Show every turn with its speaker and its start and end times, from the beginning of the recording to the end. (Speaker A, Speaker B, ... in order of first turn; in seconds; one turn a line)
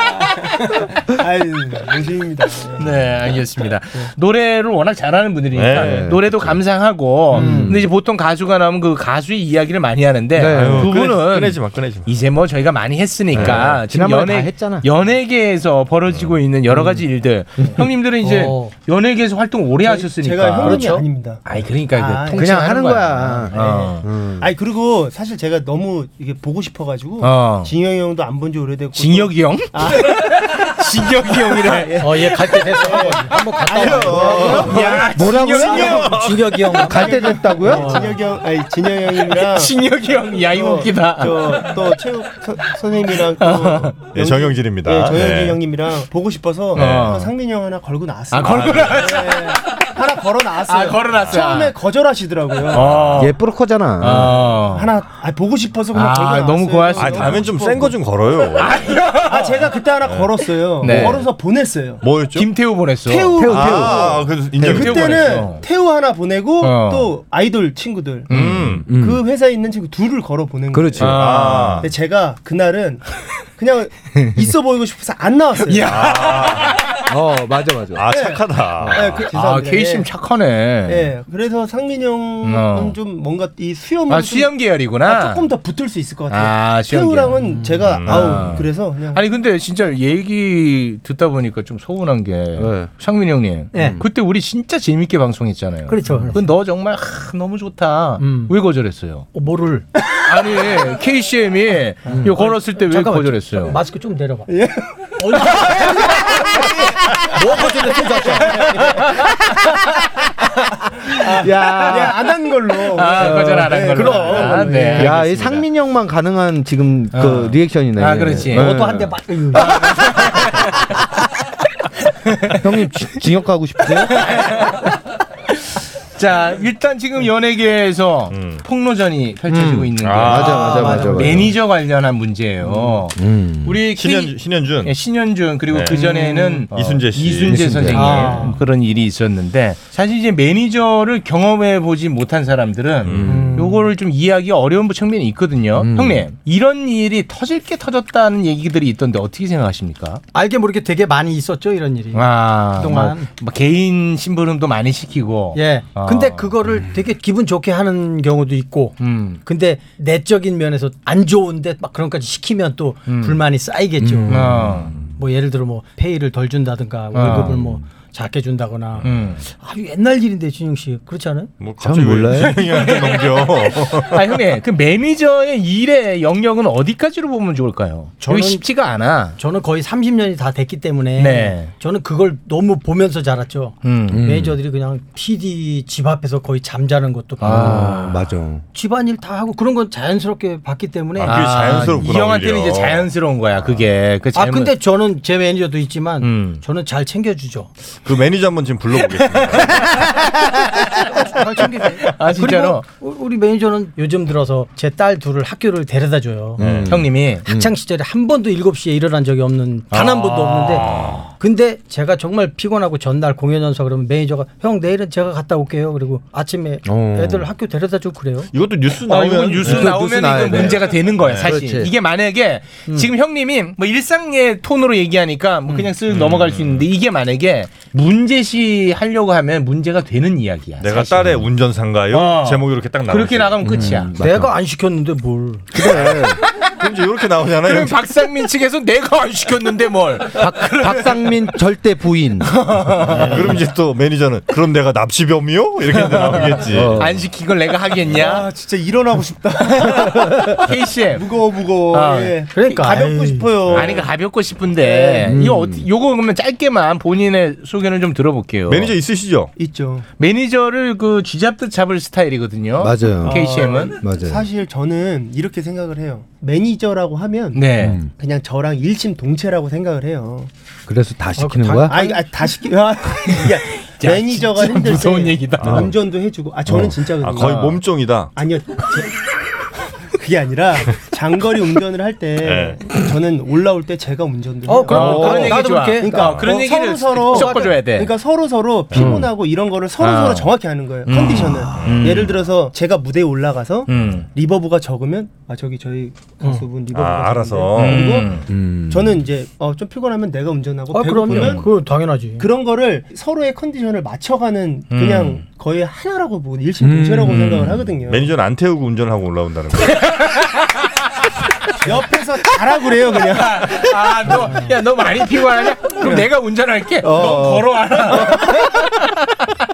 Speaker A: 0.2-3.3
Speaker B: 0.3-0.8
Speaker B: 2.8-24.1
Speaker C: 5.5-6.6
Speaker D: 5.7-6.2
Speaker D: 7.3-7.8
Speaker E: 7.3-7.7
Speaker D: 10.3-10.9
Speaker C: 10.5-12.1
Speaker C: 13.3-13.8
Speaker D: 13.3-14.9
Speaker C: 16.1-16.4
Speaker D: 16.7-17.0
Speaker E: 18.2-18.7
Speaker A: 19.8-22.8
Speaker D: 22.3-24.5
Speaker A: 23.6-23.9
Speaker A: 24.4-30.7
Speaker B: 27.2-27.7
Speaker B: 29.0-32.0
Speaker A: 31.2-36.1
Speaker E: 32.0-38.1
Speaker B: 33.3-36.1
Speaker C: 33.7-34.7
Speaker D: 33.9-36.1
Speaker C: 35.7-36.9
Speaker D: 36.8-38.1
Speaker A: 36.9-53.0
Speaker B: 39.3-41.9
Speaker B: 43.4-44.0
Speaker C: 44.1-45.6
Speaker B: 46.7-47.3
Speaker C: 46.8-47.2
Speaker B: 48.3-49.9
Speaker C: 48.5-49.0
Speaker B: 50.7-51.8
Speaker B: 52.7-53.4
Speaker C: 52.8-53.2
Speaker D: 53.2-54.4
Speaker B: 54.0-54.9
Speaker A: 54.5-58.0
Speaker B: 55.9-57.5
Speaker C: 57.0-58.9
Speaker B: 58.6-59.5
Speaker A: 59.1-62.0
Speaker B: 60.8-61.3
Speaker C: 62.0-62.5
Speaker B: 62.3-63.4
Speaker A: 63.1-68.3
Speaker D: 63.4-64.2
Speaker C: 63.5-65.4
Speaker B: 64.6-65.6
Speaker B: 66.6-67.1
Speaker B: 68.3-68.8
Speaker C: 68.3-68.9
Speaker D: 68.8-69.2
Speaker A: 68.9-75.9
Speaker D: 70.7-71.2
Speaker B: 71.0-71.9
Speaker C: 71.0-71.9
Speaker B: 74.2-74.5
Speaker B: 75.7-76.9
Speaker C: 75.9-77.0
Speaker D: 77.1-78.0
Speaker C: 77.9-79.2
Speaker A: 78.1-80.1
Speaker B: 79.3-81.1
Speaker A: 80.9-89.3
Speaker B: 82.4-83.0
Speaker B: 84.1-85.5
Speaker B: 86.3-87.4
Speaker C: 87.8-88.5
Speaker B: 87.9-99.3
Speaker D: 92.6-92.9
Speaker E: 93.7-94.0
Speaker E: 95.9-96.4
Speaker D: 96.1-96.3
Speaker E: 98.2-98.5
Speaker E: 99.3-99.9
Speaker B: 100.1-103.8
Speaker D: 102.1-102.3
Speaker E: 102.1-104.5
Speaker A: 104.5-106.7
Speaker E: 105.2-109.1
Speaker A: 108.1-109.2
Speaker B: 108.8-109.3
Speaker A: 111.1-114.9
Speaker D: 111.3-112.2
Speaker B: 112.9-115.7
Speaker D: 113.2-113.7
Speaker E: 113.8-115.1
Speaker D: 114.8-119.6
Speaker B: 117.1-118.8
Speaker E: 118.5-119.8
Speaker B: 119.6-120.9
Speaker B: 122.3-122.6
Speaker D: 122.6-124.3
Speaker B: 124.1-124.9
Speaker B: 125.5-150.2
Speaker C: 128.3-128.6
Speaker D: 129.5-131.5
Speaker C: 130.0-130.9
Speaker E: 130.7-131.5
Speaker D: 133.1-133.8
Speaker C: 133.9-134.9
Speaker C: 135.7-138.2
Speaker E: 136.0-136.6
Speaker D: 137.4-138.3
Speaker E: 137.9-138.6
Speaker C: 143.1-143.5
Speaker D: 143.2-143.6
Speaker E: 143.4-143.8
Speaker D: 145.8-146.3
Speaker E: 150.3-153.3
Speaker B: 152.1-156.5
Speaker E: 155.5-164.6
Speaker B: 159.0-159.4
Speaker B: 163.1-163.4
Speaker D: 164.0-164.8
Speaker B: 164.3-164.9
Speaker E: 165.2-171.5
Speaker B: 167.1-167.5
Speaker D: 167.3-167.8
Speaker C: 169.0-169.3
Speaker B: 169.0-169.4
Speaker C: 171.6-174.2
Speaker D: 171.8-172.6
Speaker B: 172.4-179.4
Speaker E: 178.2-178.6
Speaker E: 179.4-188.0
Speaker B: 181.2-181.7
Speaker B: 183.8-184.3
Speaker D: 184.1-184.6
Speaker B: 187.4-188.2
Speaker D: 187.4-188.6
Speaker E: 188.7-192.0
Speaker C: 191.2-193.1
Speaker B: 191.2-194.8
Speaker E: 194.3-197.7
Speaker B: 196.2-196.6
Speaker C: 197.9-200.2
Speaker B: 199.5-199.8
Speaker E: 201.1-206.6
Speaker B: 202.1-202.8
Speaker D: 206.6-207.7
Speaker C: 206.6-207.0
Speaker B: 206.8-207.5
Speaker E: 207.5-218.5
Speaker C: 209.9-211.3
Speaker B: 210.3-211.2
Speaker D: 216.8-217.5
Speaker C: 218.5-221.5
Speaker B: 219.1-231.5
Speaker D: 219.6-221.9
Speaker C: 225.8-226.9
Speaker C: 230.8-233.7
Speaker B: 232.1-234.1
Speaker D: 233.6-234.5
Speaker E: 234.2-235.7
Speaker D: 235.7-236.4
Speaker C: 235.8-238.0
Speaker B: 237.6-241.4
Speaker D: 240.4-243.6
Speaker B: 242.4-243.4
Speaker C: 243.1-247.1
Speaker B: 246.1-248.5
Speaker D: 246.7-247.2
Speaker A: 248.1-250.6
Speaker B: 250.5-251.2
Speaker A: 251.1-254.1
Speaker B: 251.9-252.3
Speaker E: 252.5-253.6
Speaker B: 253.7-258.9
Speaker C: 253.7-254.0
Speaker A: 254.8-255.3
Speaker D: 255.3-255.9
Speaker C: 258.7-259.5
Speaker A: 259.6-260.1
Speaker B: 260.2-264.0
Speaker D: 262.8-263.4
Speaker A: 263.2-270.5
Speaker D: 264.0-264.4
Speaker B: 267.5-268.0
Speaker D: 267.8-268.1
Speaker D: 270.9-271.9
Speaker E: 271.4-272.2
Speaker A: 271.9-277.8
Speaker B: 273.3-275.8
Speaker D: 275.6-275.9
Speaker C: 276.7-278.3
Speaker B: 277.4-277.8
Speaker A: 278.4-279.1
Speaker A: 280.1-301.7
Speaker C: 282.4-282.8
Speaker E: 284.7-286.7
Speaker B: 284.9-288.1
Speaker C: 285.1-285.5
Speaker E: 287.3-287.8
Speaker D: 288.9-289.3
Speaker B: 290.0-290.5
Speaker B: 291.1-292.3
Speaker C: 291.8-292.3
Speaker B: 293.9-294.3
Speaker E: 296.4-296.7
Speaker C: 296.9-298.4
Speaker B: 297.8-298.5
Speaker D: 298.5-299.2
Speaker E: 300.9-302.5
Speaker C: 301.4-301.6
Speaker A: 302.4-308.3
Speaker B: 304.9-305.4
Speaker D: 306.8-307.6
Speaker C: 307.4-310.1
Speaker B: 309.9-310.7
Speaker A: 311.8-313.9
Speaker B: 313.3-319.0
Speaker D: 317.0-317.7
Speaker A: 317.2-317.5